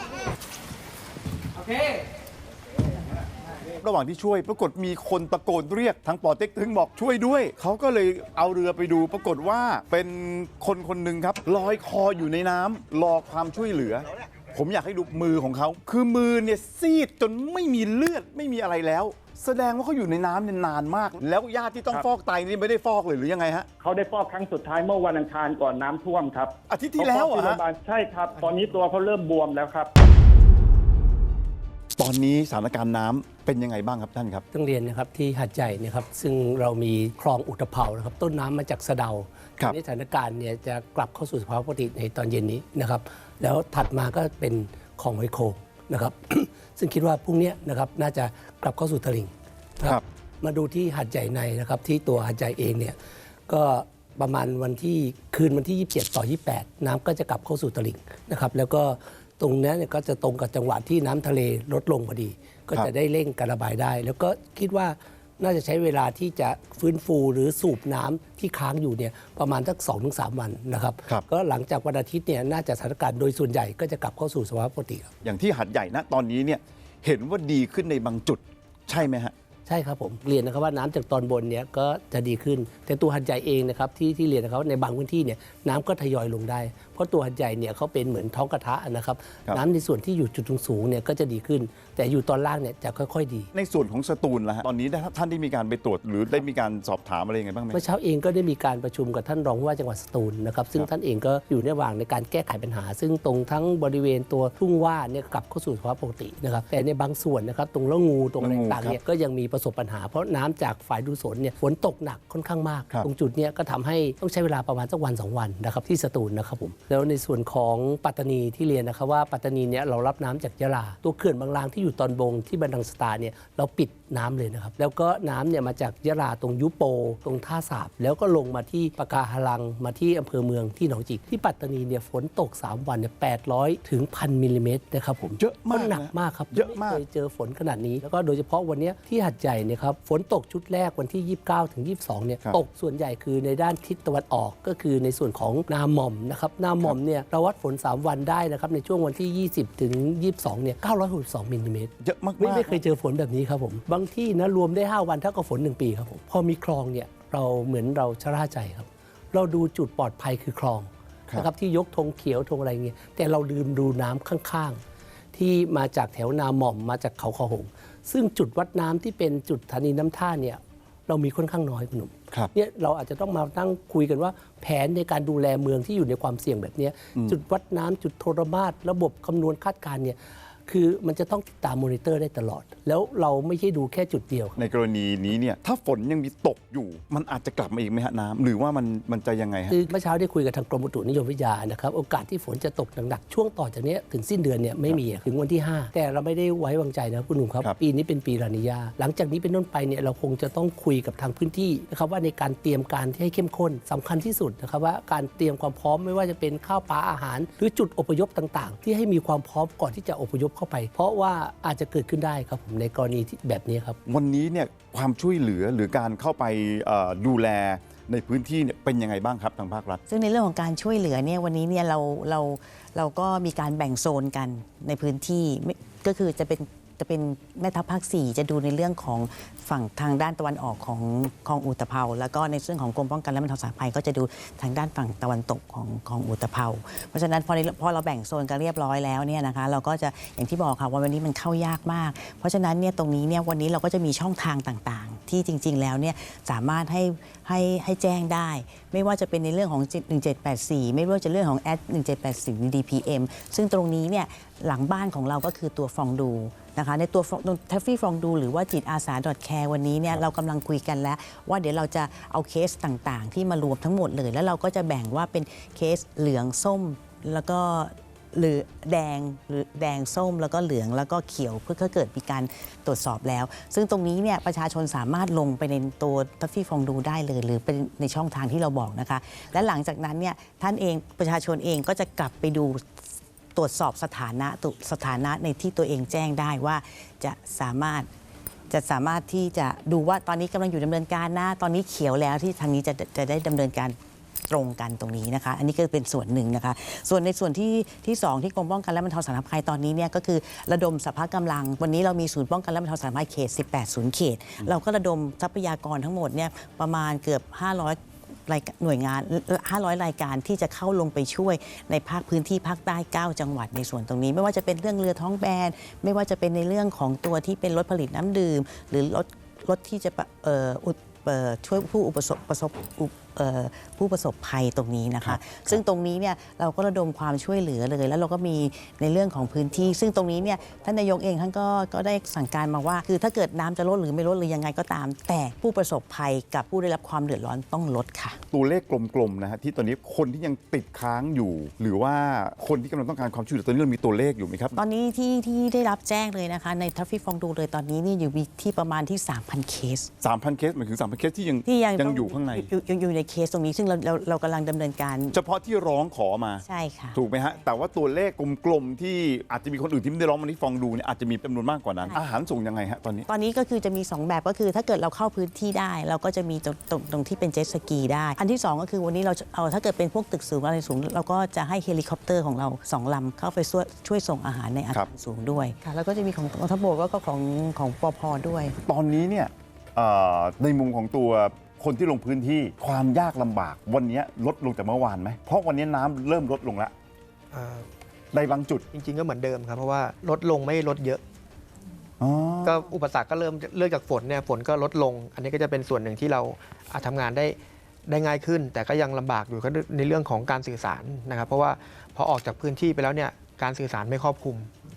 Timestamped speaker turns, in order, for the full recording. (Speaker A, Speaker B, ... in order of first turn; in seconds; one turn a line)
Speaker A: 3.8-23.7
Speaker B: 23.8-29.9
Speaker A: 26.7-27.6
Speaker A: 31.9-34.4
Speaker C: 34.5-53.0
Speaker C: 53.5-75.1
Speaker A: 75.2-79.3
Speaker C: 79.7-93.5
Speaker A: 93.5-97.8
Speaker C: 97.7-164.8
Speaker A: 108.4-109.0
Speaker A: 135.3-137.0
Speaker A: 152.0-152.8
Speaker C: 165.3-184.6
Speaker A: 184.6-189.7
Speaker C: 189.7-214.0
Speaker A: 214.1-220.0
Speaker D: 220.1-282.8
Speaker D: 283.5-288.1
Speaker D: 288.7-294.0
Speaker D: 294.5-338.4
Speaker A: 325.2-325.8
Speaker A: 338.5-344.7
Speaker D: 344.7-350.1
Speaker A: 350.2-352.7
Speaker D: 351.6-355.4
Speaker A: 355.3-363.3
Speaker D: 356.6-357.2
Speaker D: 363.3-378.7
Speaker A: 378.8-386.9
Speaker E: 387.5-387.9
Speaker A: 388.3-388.8
Speaker E: 388.9-391.2
Speaker A: 392.2-392.9
Speaker E: 392.6-404.7